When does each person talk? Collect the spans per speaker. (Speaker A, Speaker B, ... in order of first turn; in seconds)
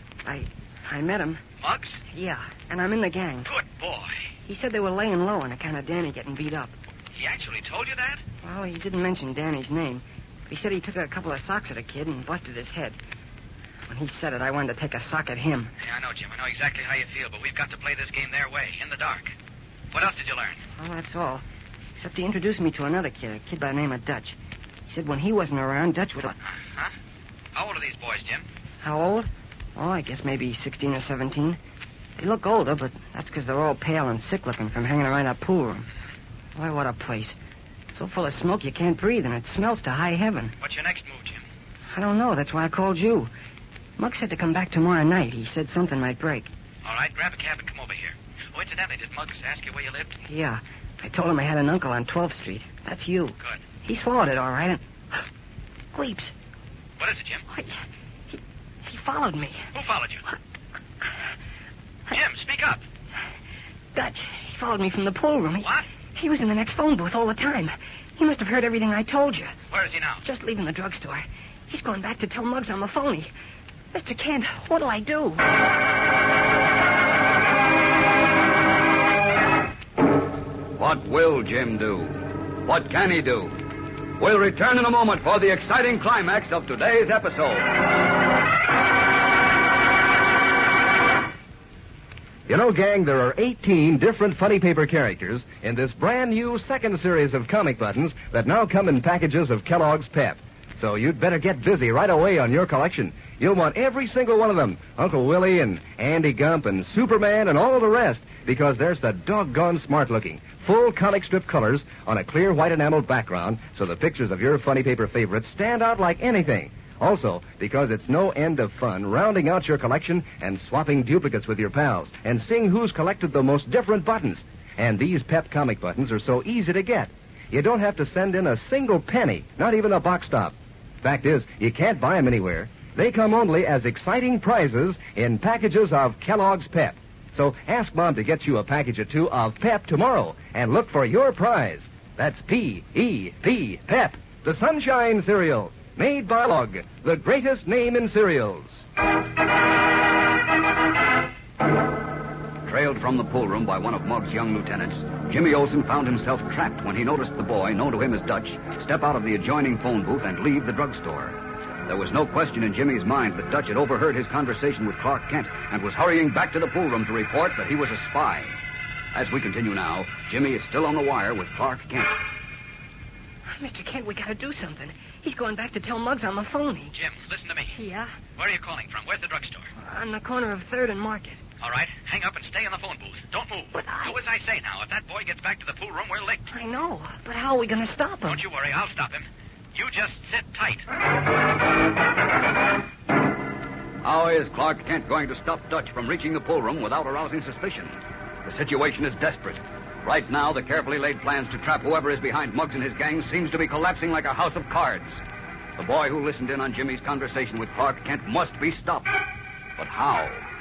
Speaker A: 0.2-1.4, 2.1-3.5, 4.5-6.7, 8.4-13.0, 13.9-15.7, 20.8-21.4, 22.0-24.4, 24.9-26.3, 28.8-31.6, 32.2-35.9, 36.5-37.4, 37.9-40.5, 41.9-43.3, 44.0-46.5, 50.2-55.2, 55.9-56.3, 57.5-57.8, 58.3-59.7, 63.9-69.6, 70.2-73.3, 73.9-75.5, 173.5-176.9, 177.7-178.2, 179.8-181.4, 183.7-184.2, 186.5-188.4
Speaker B: 1.6-2.0, 3.5-4.2, 7.1-8.2, 15.8-19.3, 19.9-20.6, 27.5-28.4, 40.6-41.4, 46.8-50.1, 57.0-57.4, 59.7-60.2, 62.1-62.8, 69.7-70.2, 176.9-177.8, 178.4-179.7, 181.6-186.5, 188.3-190.8
Speaker C: 80.8-83.6, 84.2-87.7, 152.7-161.3, 161.9-168.5, 169.1-172.2, 194.0-205.2, 205.8-209.1, 209.8-210.4
Speaker D: 92.5-148.8